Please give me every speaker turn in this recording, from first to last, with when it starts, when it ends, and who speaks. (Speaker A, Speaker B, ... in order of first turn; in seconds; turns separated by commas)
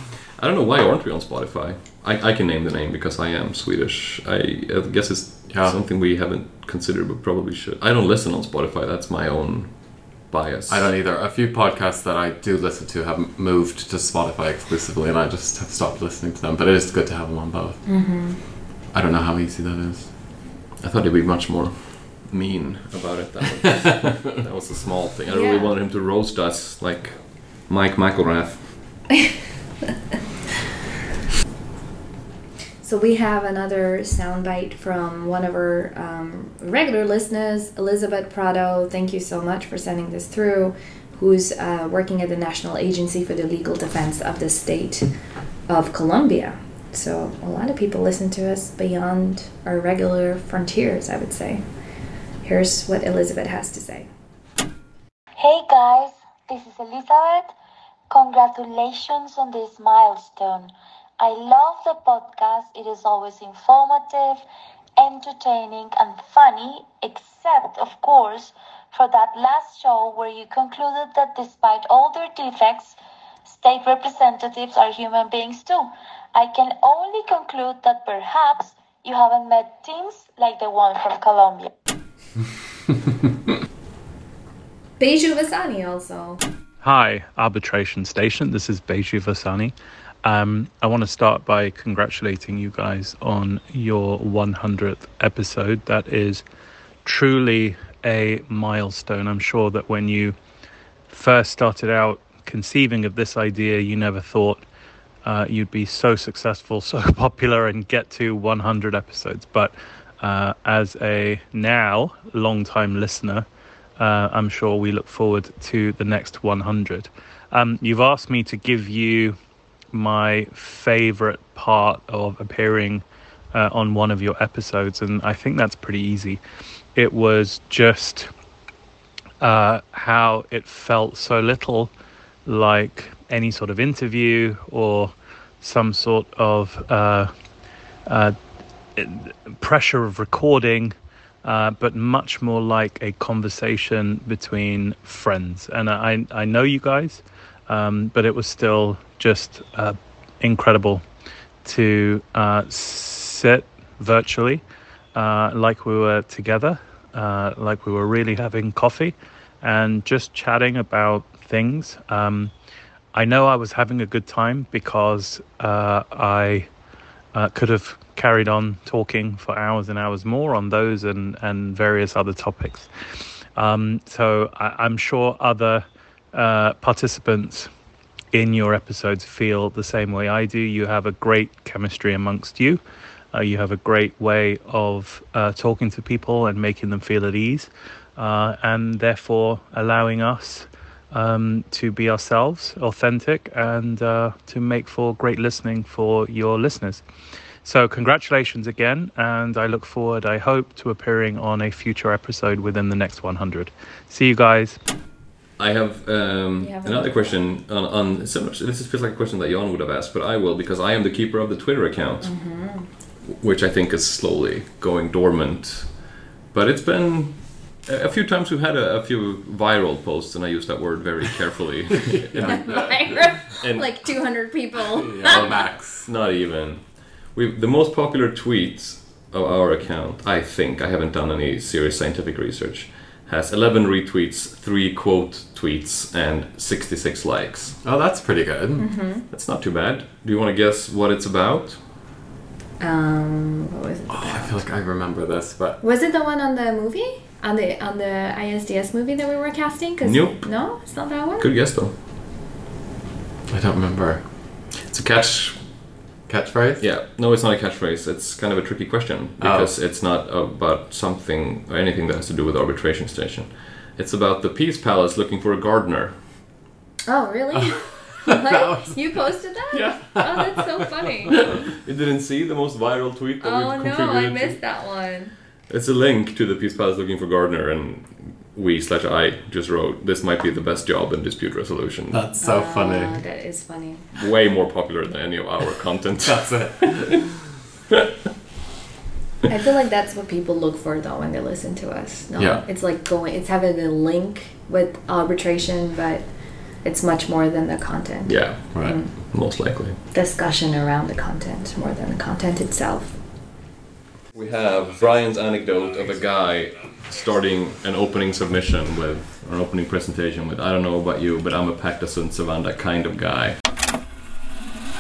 Speaker A: 0.4-9.7, Speaker B: 5.5-5.8, Speaker A: 10.2-10.9, Speaker B: 10.7-17.8, Speaker C: 17.9-18.4, Speaker B: 18.9-20.1, Speaker A: 20.8-28.7, Speaker C: 25.3-25.8, Speaker C: 32.8-45.1, Speaker C: 45.7-51.6, Speaker C: 52.4-54.1, Speaker D: 55.4-57.5, Speaker D: 58.1-64.4, Speaker D: 65.0-81.7, Speaker C: 85.0-86.4, Speaker E: 86.8-96.4, Speaker E: 97.0-100.3, Speaker E: 101.1-104.6, Speaker E: 105.2-113.5, Speaker E: 114.0-119.4, Speaker E: 119.9-126.4, Speaker E: 127.0-128.3, Speaker E: 129.4-131.9, Speaker E: 132.5-137.3, Speaker E: 138.1-138.4, Speaker E: 139.0-151.0, Speaker E: 151.6-154.6, Speaker E: 155.1-162.5, Speaker E: 163.1-166.7, Speaker E: 167.3-172.9, Speaker E: 173.6-177.7, Speaker E: 178.3-182.8, Speaker E: 183.3-197.0, Speaker E: 197.6-204.8, Speaker A: 205.6-212.3, Speaker C: 206.6-207.4, Speaker C: 212.2-212.9, Speaker A: 213.3-215.9, Speaker A: 216.5-223.9, Speaker B: 222.3-222.6, Speaker C: 222.5-225.6, Speaker B: 224.9-226.1, Speaker A: 225.3-237.8, Speaker B: 237.8-238.9, Speaker C: 238.8-239.2, Speaker A: 239.3-241.8, Speaker C: 242.8-244.6, Speaker B: 244.1-245.8, Speaker C: 245.8-251.5, Speaker A: 250.0-250.5, Speaker A: 251.4-251.9, Speaker B: 253.5-254.2, Speaker A: 254.8-255.6, Speaker B: 256.3-256.8, Speaker A: 256.8-266.2, Speaker B: 259.4-259.7, Speaker C: 267.1-271.4, Speaker B: 268.2-269.0, Speaker B: 269.7-270.8, Speaker A: 271.3-274.6, Speaker C: 273.4-275.3, Speaker A: 275.7-282.2, Speaker B: 282.1-283.2, Speaker C: 282.4-284.0, Speaker A: 284.1-286.9, Speaker B: 286.2-287.3, Speaker C: 289.5-296.2, Speaker B: 292.4-292.6, Speaker C: 296.8-299.1, Speaker B: 298.3-299.0, Speaker A: 299.2-300.0, Speaker C: 300.1-303.2, Speaker A: 304.3-313.6